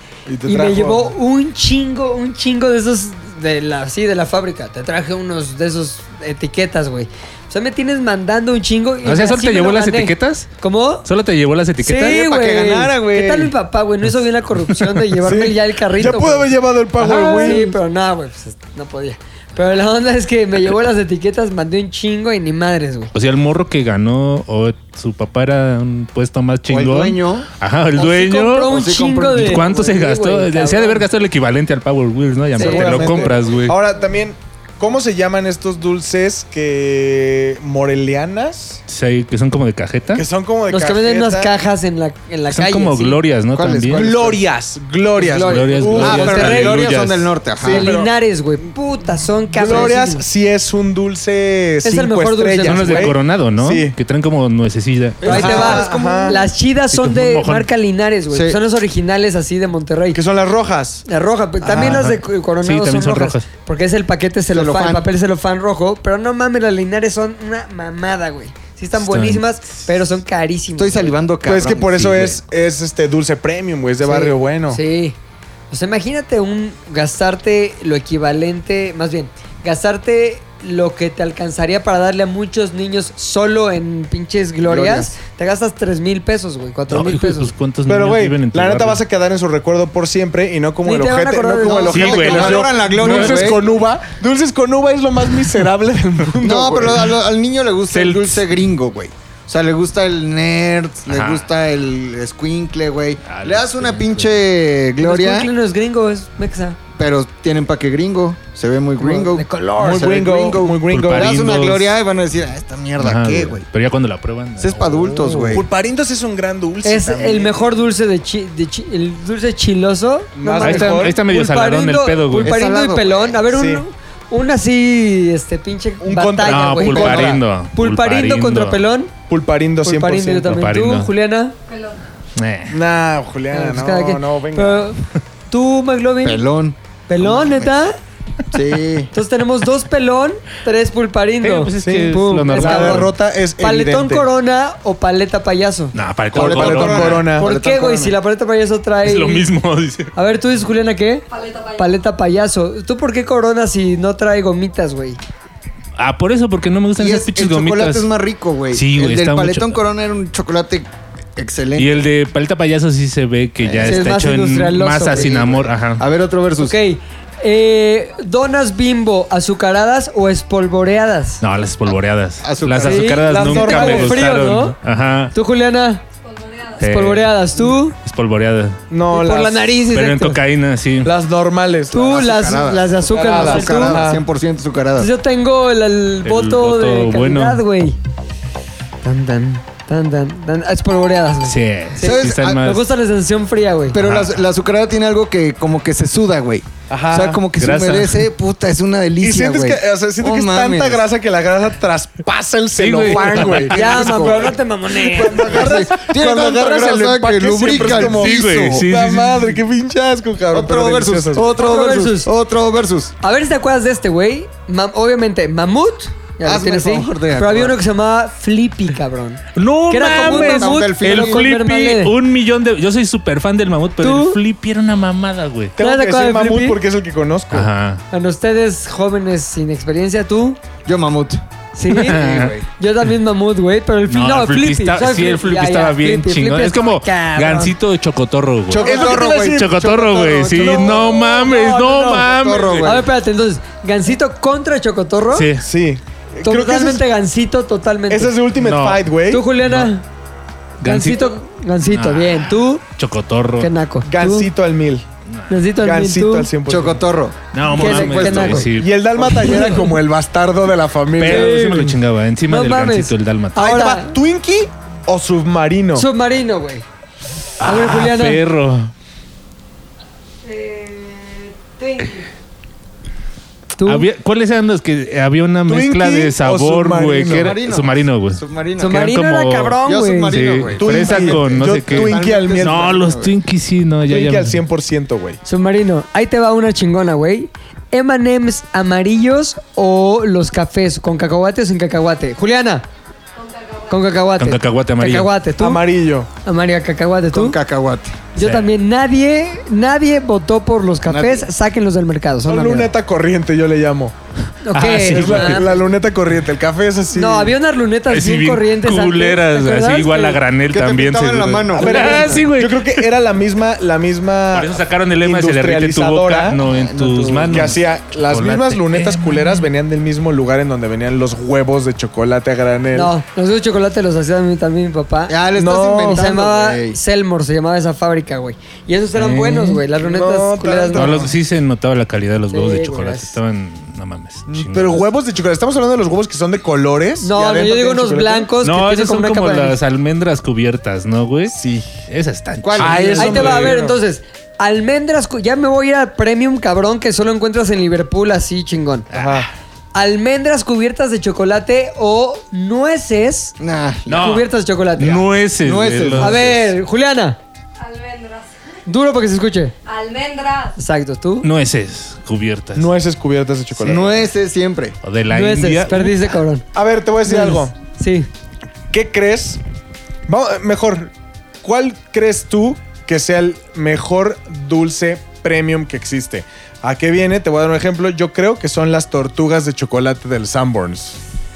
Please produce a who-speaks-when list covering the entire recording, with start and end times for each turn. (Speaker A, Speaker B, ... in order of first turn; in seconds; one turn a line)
Speaker A: 0.3-1.1
Speaker B: 0.4-11.1
Speaker C: 9.0-10.5
Speaker C: 11.0-12.2
Speaker B: 11.8-23.1
Speaker D: 12.0-13.5
Speaker A: 15.2-17.7
Speaker C: 23.1-28.8
Speaker D: 26.7-27.5
Speaker B: 27.9-31.1
Speaker D: 28.6-29.7
Speaker C: 29.3-33.8
Speaker B: 32.5-33.2
Speaker A: 32.5-38.8
Speaker C: 38.9-40.2
Speaker A: 40.1-41.5
Speaker B: 40.7-43.2
Speaker C: 42.5-44.0
Speaker D: 43.5-44.4
Speaker A: 43.9-46.7
Speaker B: 45.1-46.8
Speaker C: 45.4-47.3
Speaker D: 46.0-47.9
Speaker A: 47.6-48.1
Speaker B: 47.6-50.2
Speaker A: 49.5-53.9
Speaker B: 51.8-53.1
Speaker C: 52.6-55.7
Speaker D: 55.2-56.4
Speaker B: 55.2-60.2
Speaker A: 55.2-56.4
Speaker C: 56.9-57.7
Speaker D: 58.3-58.6
Speaker A: 60.1-61.0
Speaker B: 61.0-71.2
Speaker A: 61.6-62.0
Speaker C: 61.7-63.5
Speaker D: 64.5-65.1
Speaker C: 69.0-69.5
Speaker D: 70.8-72.4
Speaker A: 71.4-74.8
Speaker B: 74.0-75.2
Speaker B: 75.7-87.5
Speaker D: 84.6-85.1
Speaker C: 86.9-89.0
Speaker A: 87.9-97.1
Speaker B: 90.8-92.6
Speaker D: 91.6-93.7
Speaker C: 91.9-93.6
Speaker D: 96.4-105.5
Speaker C: 97.9-98.4
Speaker C: 101.1-101.5
Speaker C: 103.3-104.3
Speaker B: 105.0-106.8
Speaker D: 107.0-113.6
Speaker B: 109.0-110.5
Speaker A: 109.8-111.4
Speaker C: 110.9-111.9
Speaker C: 113.0-115.2
Speaker D: 114.6-115.7
Speaker A: 115.4-117.6
Speaker B: 116.8-129.1
Speaker A: 120.3-121.2
Speaker C: 120.6-122.6
Speaker D: 122.4-123.3
Speaker A: 123.5-123.8
Speaker A: 126.0-127.3
Speaker C: 126.4-128.8
Speaker D: 126.9-127.4
Speaker A: 129.3-130.6
Speaker B: 129.8-131.5
Speaker C: 130.5-131.1
Speaker E: 131.7-132.0
Speaker C: 132.3-132.8
Speaker A: 132.7-134.9
Speaker B: 133.5-136.4
Speaker D: 136.2-137.7
Speaker B: 137.1-137.9
Speaker D: 138.5-139.1
Speaker B: 139.1-145.9
Speaker C: 141.4-143.1
Speaker A: 141.8-144.3
Speaker C: 145.9-147.2
Speaker A: 146.3-147.5
Speaker D: 146.3-148.2
Speaker B: 147.3-149.5
Speaker C: 149.0-150.1
Speaker B: 150.1-151.2
Speaker E: 151.3-151.9
Speaker B: 151.8-155.2
Speaker C: 156.0-158.1
Speaker D: 156.9-162.0
Speaker C: 158.7-159.8
Speaker C: 161.8-166.0
Speaker D: 163.6-164.2
Speaker B: 163.8-165.4
Speaker D: 165.1-166.8
Speaker B: 166.6-171.4
Speaker C: 171.4-175.3
Speaker D: 172.4-173.3
Speaker B: 172.8-174.8
Speaker A: 173.3-174.3
Speaker B: 175.3-176.0
Speaker E: 176.2-176.8
Speaker C: 176.8-177.3
Speaker B: 176.8-177.9
Speaker C: 178.0-178.8
Speaker A: 178.9-179.8
Speaker B: 179.1-180.4
Speaker C: 179.9-181.1
Speaker A: 181.0-182.1
Speaker B: 181.9-184.1
Speaker D: 181.9-185.1
Speaker A: 183.1-184.2
Speaker B: 185.0-188.0
Speaker C: 186.2-187.6
Speaker B: 189.0-194.0
Speaker C: 191.4-192.8
Speaker D: 192.0-192.7
Speaker D: 193.9-201.1
Speaker C: 194.0-194.4
Speaker A: 196.9-197.4
Speaker C: 197.6-198.3
Speaker A: 199.2-211.5
Speaker C: 202.8-203.7
Speaker D: 203.0-204.5
Speaker B: 203.7-205.7
Speaker D: 205.1-208.9
Speaker C: 207.7-209.6
Speaker D: 210.5-213.1
Speaker B: 211.5-212.3
Speaker B: 213.2-222.1
Speaker D: 216.4-217.8
Speaker C: 219.5-225.7
Speaker D: 220.1-221.5
Speaker B: 224.0-224.4
Speaker A: 225.8-227.7
Speaker B: 225.8-226.8
Speaker C: 227.5-228.0
Speaker B: 228.1-230.6
Speaker D: 230.8-231.4
Speaker B: 231.7-237.7
Speaker C: 231.9-232.6
Speaker D: 232.1-232.7
Speaker C: 234.1-242.9
Speaker D: 238.7-239.7
Speaker A: 238.7-241.6
Speaker B: 238.8-239.2
Speaker B: 240.6-241.8
Speaker D: 241.8-243.1
Speaker B: 242.8-245.5
Speaker C: 245.3-245.7
Speaker A: 245.6-247.0
Speaker B: 246.4-248.4
Speaker A: 248.1-249.4
Speaker C: 248.6-249.1
Speaker B: 249.3-250.0
Speaker C: 250.8-253.7
Speaker B: 250.8-252.8
Speaker B: 253.6-254.5
Speaker A: 254.0-255.0
Speaker B: 255.5-256.5
Speaker A: 255.8-257.0
Speaker D: 256.6-258.7
Speaker C: 257.5-259.0
Speaker B: 257.7-259.9
Speaker A: 258.7-261.6
Speaker C: 261.1-263.7
Speaker B: 261.2-264.1
Speaker A: 263.6-266.1
Speaker B: 265.9-266.8
Speaker B: 267.6-268.4
Speaker C: 267.6-268.9
Speaker E: 270.4-272.2
Speaker B: 273.8-274.1
Speaker C: 273.8-279.8
Speaker A: 275.7-277.6
Speaker D: 277.2-279.0
Speaker B: 278.8-280.4
Speaker D: 279.8-283.3
Speaker C: 280.3-284.6
Speaker A: 280.8-283.0
Speaker A: 284.1-285.4
Speaker B: 285.4-292.9
Speaker E: 293.4-294.1
Speaker B: 293.9-295.8
Speaker C: 294.4-295.3
Speaker A: 295.6-296.3
Speaker B: 296.4-297.6
Speaker D: 297.3-298.2
Speaker B: 298.3-302.9
Speaker C: 298.4-298.7
Speaker D: 301.0-301.5
Speaker A: 302.4-304.1
Speaker B: 304.6-305.8
Speaker C: 304.7-305.6
Speaker A: 305.0-307.6
Speaker B: 307.1-310.4
Speaker C: 308.1-313.1
Speaker D: 310.7-312.2
Speaker A: 311.8-316.6
Speaker C: 314.5-319.7
Speaker D: 316.6-317.7
Speaker A: 317.5-323.1
Speaker B: 322.9-325.4
Speaker D: 325.3-327.0
Speaker A: 325.6-326.3
Speaker B: 326.1-331.3
Speaker C: 329.1-329.8
Speaker A: 330.0-331.3
Speaker C: 330.9-335.0
Speaker B: 332.5-333.3
Speaker A: 334.5-338.5
Speaker B: 337.2-339.8
Speaker C: 338.6-341.6
Speaker A: 341.5-341.9
Speaker C: 342.1-343.3
Speaker D: 342.6-343.8
Speaker A: 342.8-344.0
Speaker B: 343.1-349.1
Speaker C: 349.1-349.5
Speaker A: 349.1-349.5
Speaker B: 349.9-353.6
Speaker D: 353.6-354.4
Speaker C: 354.1-356.6
Speaker B: 354.1-355.3
Speaker D: 355.6-356.5
Speaker B: 356.2-357.4
Speaker E: 357.8-358.5
Speaker B: 358.9-359.7
Speaker E: 359.8-360.8
Speaker B: 360.8-361.5
Speaker C: 361.4-362.9
Speaker A: 362.8-364.3
Speaker D: 363.7-364.9
Speaker C: 365.0-366.4
Speaker B: 365.3-366.6
Speaker A: 366.7-367.7
Speaker B: 367.2-368.3
Speaker A: 368.9-369.6
Speaker A: 370.3-371.1
Speaker A: 371.6-381.2